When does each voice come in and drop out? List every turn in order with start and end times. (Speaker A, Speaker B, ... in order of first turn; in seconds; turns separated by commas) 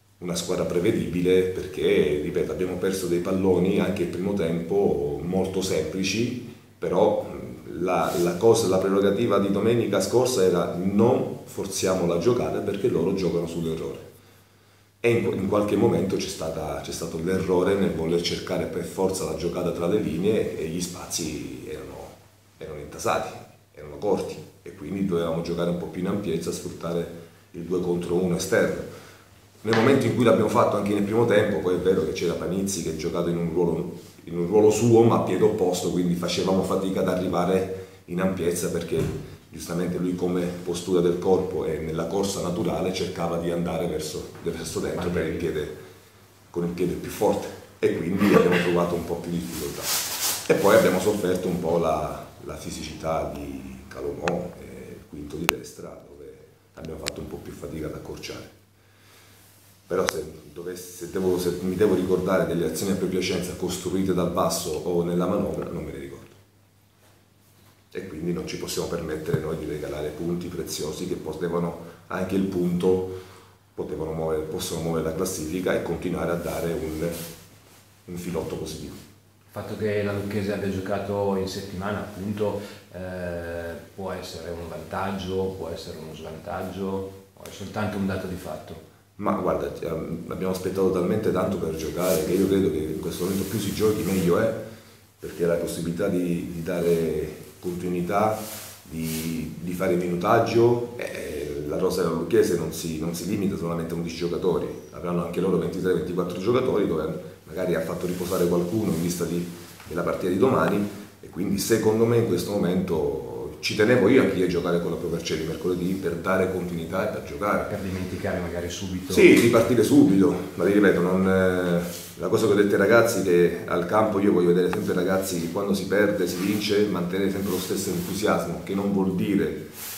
Speaker A: 0.2-14.1, Speaker A: 15.0-28.9, Speaker A: 29.6-45.8, Speaker B: 45.0-45.4, Speaker A: 46.5-58.5, Speaker A: 59.9-66.4, Speaker A: 67.9-73.1, Speaker A: 73.8-77.2, Speaker A: 78.0-79.0, Speaker B: 79.5-88.8, Speaker A: 89.2-94.6, Speaker A: 95.2-117.7, Speaker B: 117.7-119.3, Speaker A: 119.1-129.7